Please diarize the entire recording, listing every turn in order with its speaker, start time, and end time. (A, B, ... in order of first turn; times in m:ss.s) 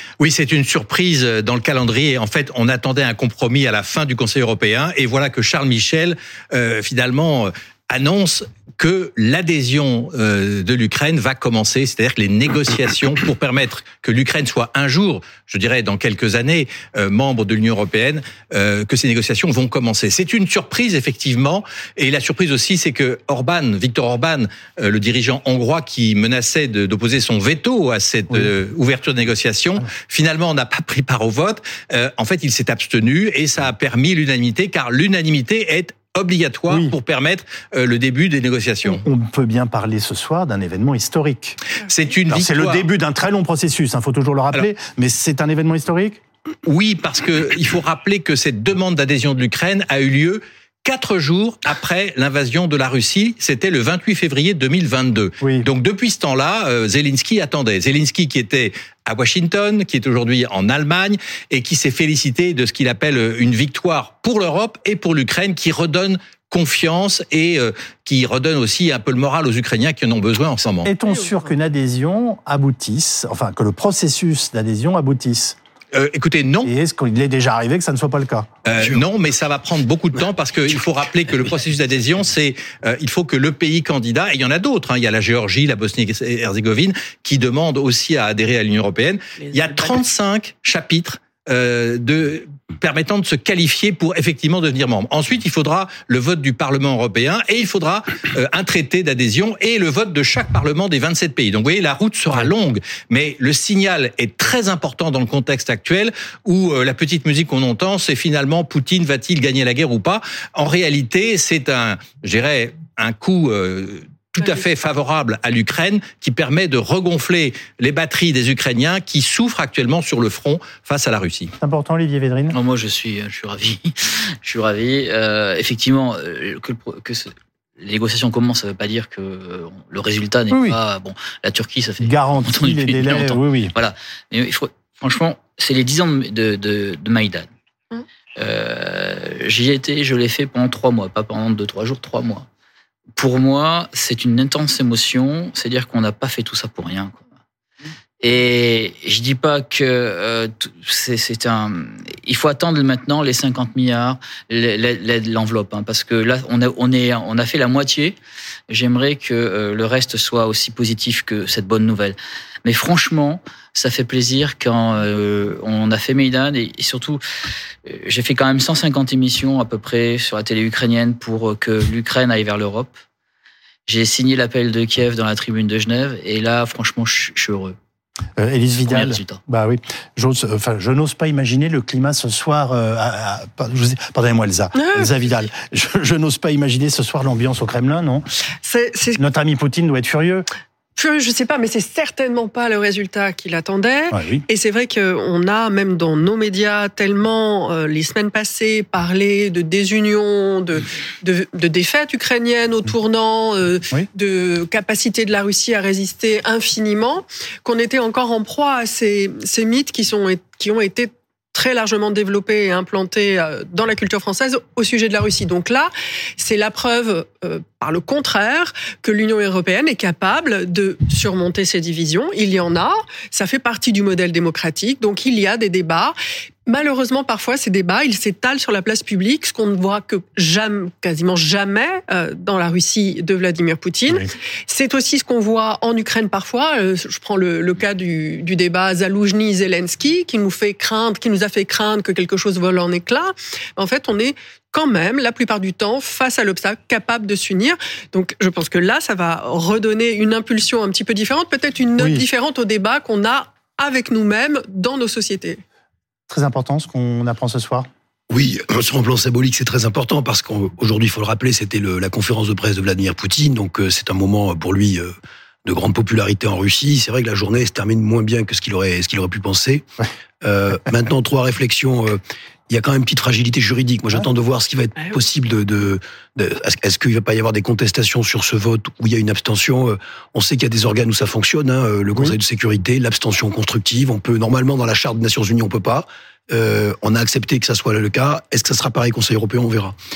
0:00.2-0:39.0 A
0:36.7-0:36.9 B
0:38.8-0:41.6 B
0:41.8-0:42.9 A
0:42.3-0:46.2 B
0:46.6-1:10.9 A
0:55.4-0:55.7 B
1:10.8-1:15.6 B
1:11.1-1:11.4 C
1:15.9-1:16.7 A
1:16.6-1:18.5 B
1:18.6-2:01.5 A
1:18.8-1:19.0 D
1:54.4-1:54.6 C
2:01.6-2:02.6 B
2:02.5-2:17.5 E
2:10.5-2:10.8 B
2:12.0-2:13.7 B
2:18.4-2:22.4 E
2:23.2-2:27.2 E
2:28.2-2:38.2 E
2:38.7-2:47.2 E
2:47.9-2:52.9 E
2:53.9-2:57.8 E
2:58.4-3:08.2 B
2:58.8-2:59.4 E
3:04.7-3:05.4 C
3:08.6-3:09.2 C
3:09.2-3:10.5 B
3:11.0-4:15.6 C
3:14.1-3:14.4 B
4:12.0-4:12.2 B
4:16.3-4:17.9 B
4:18.3-4:25.1 D
4:25.6-4:29.8 D
4:30.4-4:49.9 D